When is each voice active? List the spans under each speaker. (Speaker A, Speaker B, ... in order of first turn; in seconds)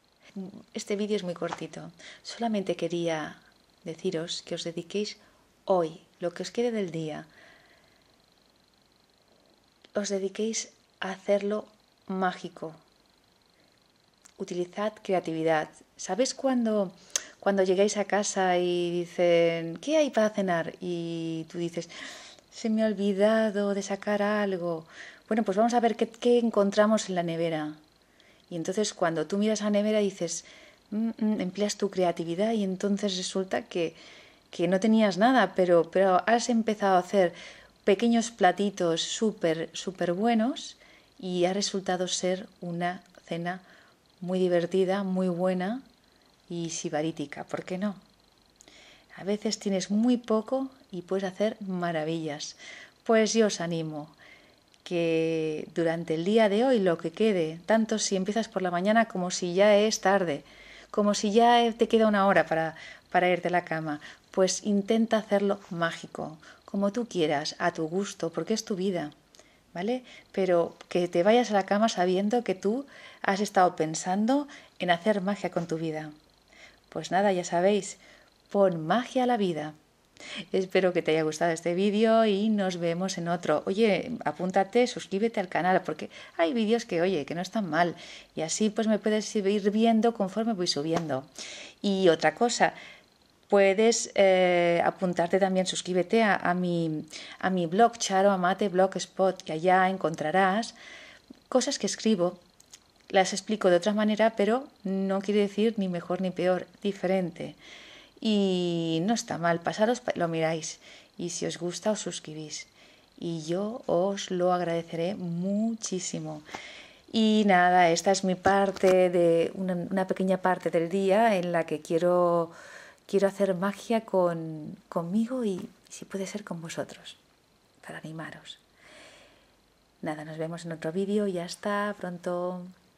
Speaker A: 0.3-7.3, 9.9-12.8, 14.4-21.9, 22.5-27.8, 28.5-34.0, 34.5-43.6, 44.2-45.8, 46.5-48.0, 49.1-54.1, 54.8-69.1, 69.7-76.1, 76.9-79.8, 80.5-91.3, 91.8-92.8, 93.5-100.7, 101.5-102.4, 103.1-107.6, 108.2-116.4, 117.1-122.5, 123.0-127.2, 127.8-128.6, 130.0-132.7